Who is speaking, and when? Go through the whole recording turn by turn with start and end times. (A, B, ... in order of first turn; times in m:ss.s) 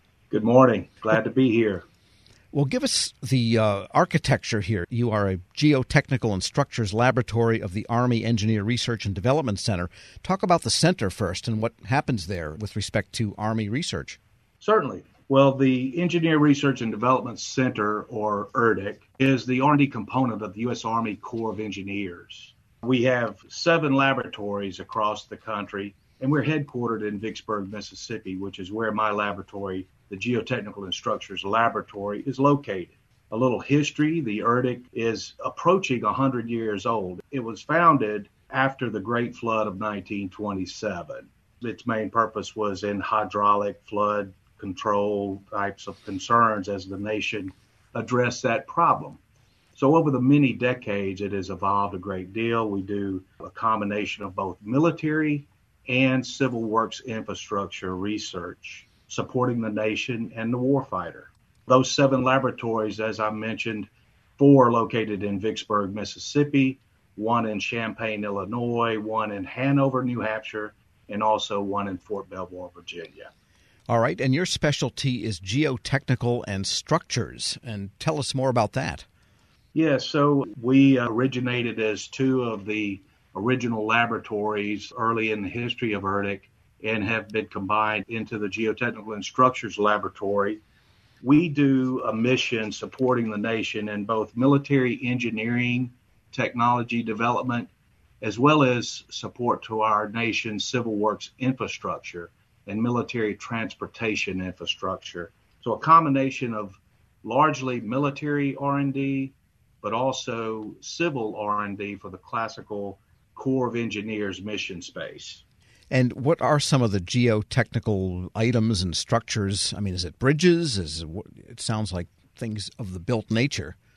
0:00.3-0:01.8 A
0:02.5-0:14.2 B
0:14.6-0:49.2 A
0:49.8-1:13.3 A
1:13.9-1:19.1 B
1:19.7-1:30.6 A
1:31.2-1:37.7 A
1:38.2-1:55.4 A
1:55.9-2:03.8 B